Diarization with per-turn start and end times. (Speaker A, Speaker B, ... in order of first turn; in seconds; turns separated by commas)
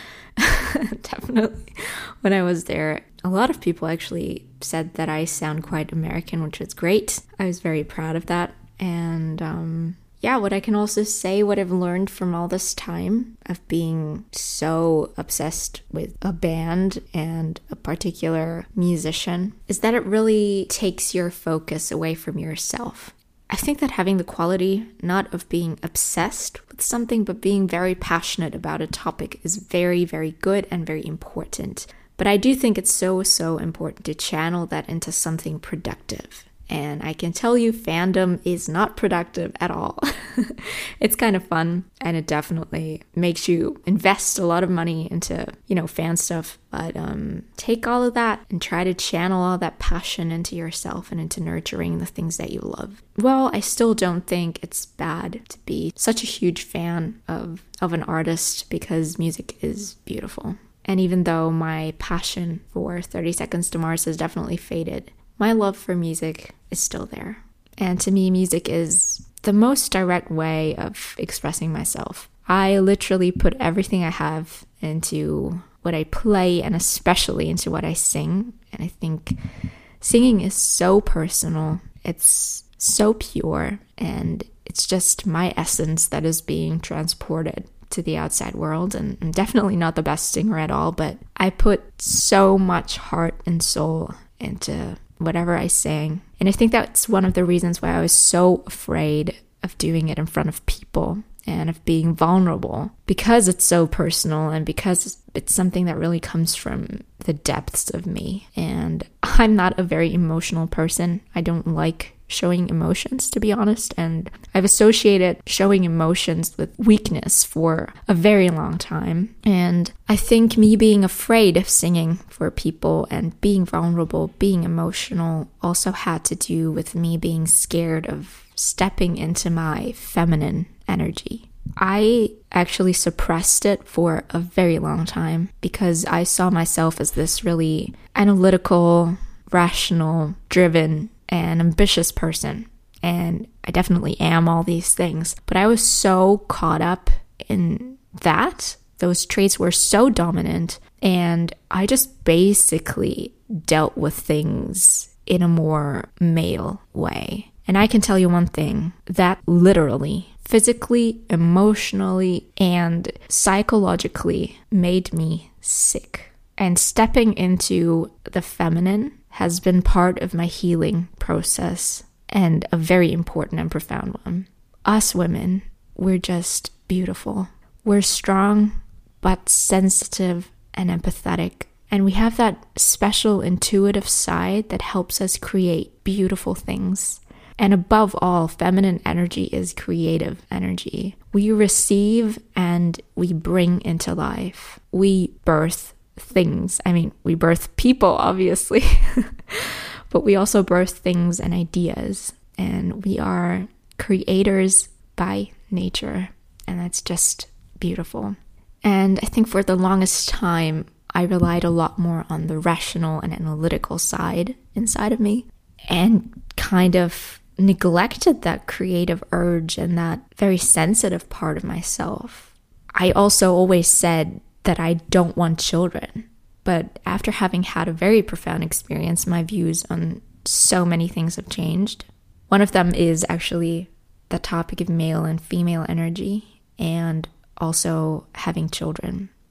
Speaker A: 0.4-79.4, Speaker A: 80.0-239.3